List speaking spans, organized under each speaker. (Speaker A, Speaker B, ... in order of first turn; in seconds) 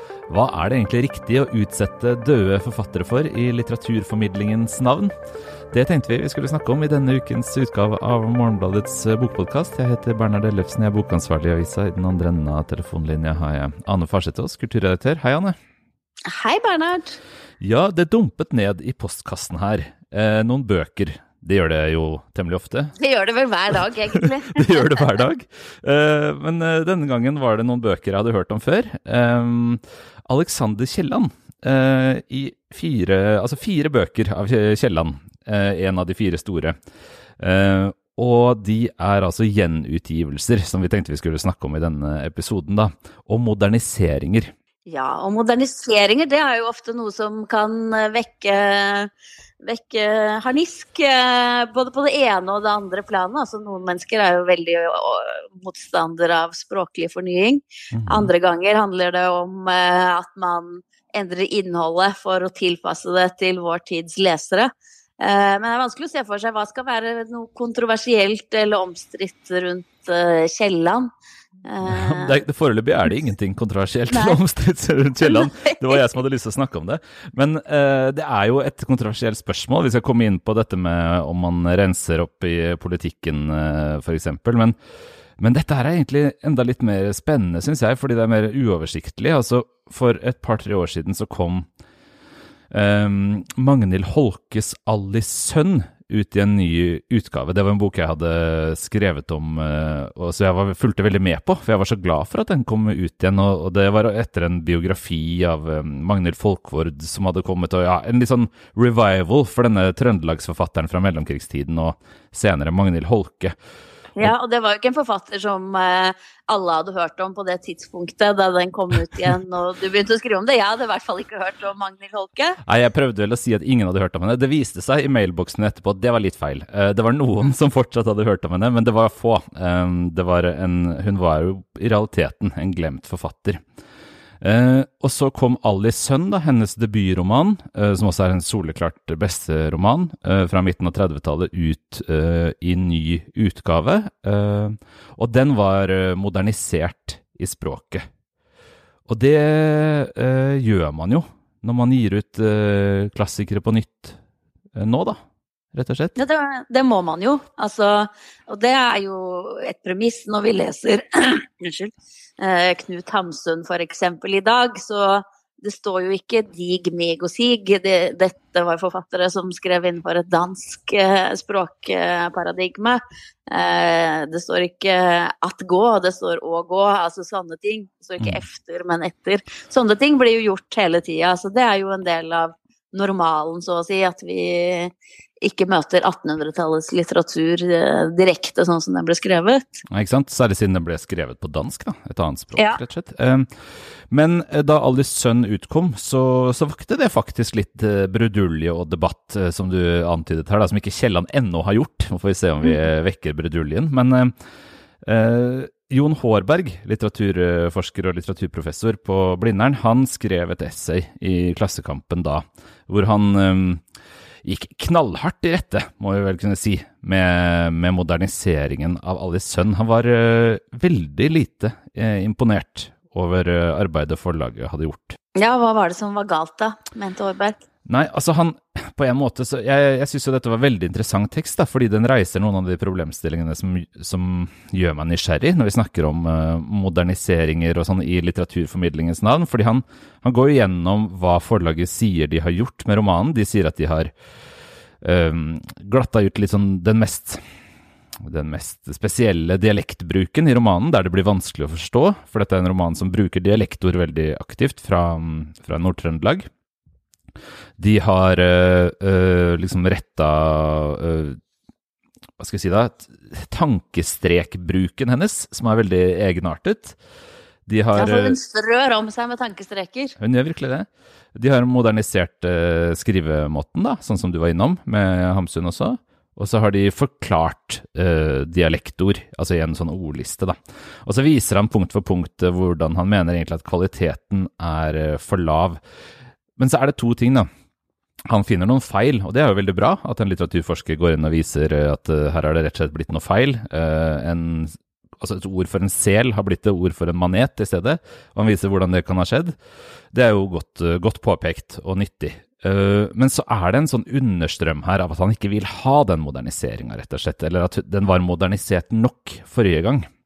Speaker A: 0.3-5.1, 5.7-15.6, 17.6-22.9, 24.1-36.8, 37.4-44.5, 57.9-58.3, 71.8-84.8, 85.4-91.7, 92.7-113.6, 122.7-133.6, 134.4-148.1, 149.1-154.2, 154.8-155.2, 155.7-156.2, 189.9-193.5, 194.1-204.3, 205.0-213.8, 214.4-225.2, 227.9-244.1, 245.0-247.4, 248.2-256.5, 257.8-261.4, 262.4-267.0, 267.7-268.4, 270.2-285.8, 286.6-287.5, 288.3-299.6, 300.1-310.1
Speaker B: 16.3-17.2, 23.0-25.1, 44.9-71.1, 71.7-72.4, 74.1-74.4, 75.2-76.0, 114.2-122.6, 156.2-189.8, 225.3-227.6, 267.9-270.1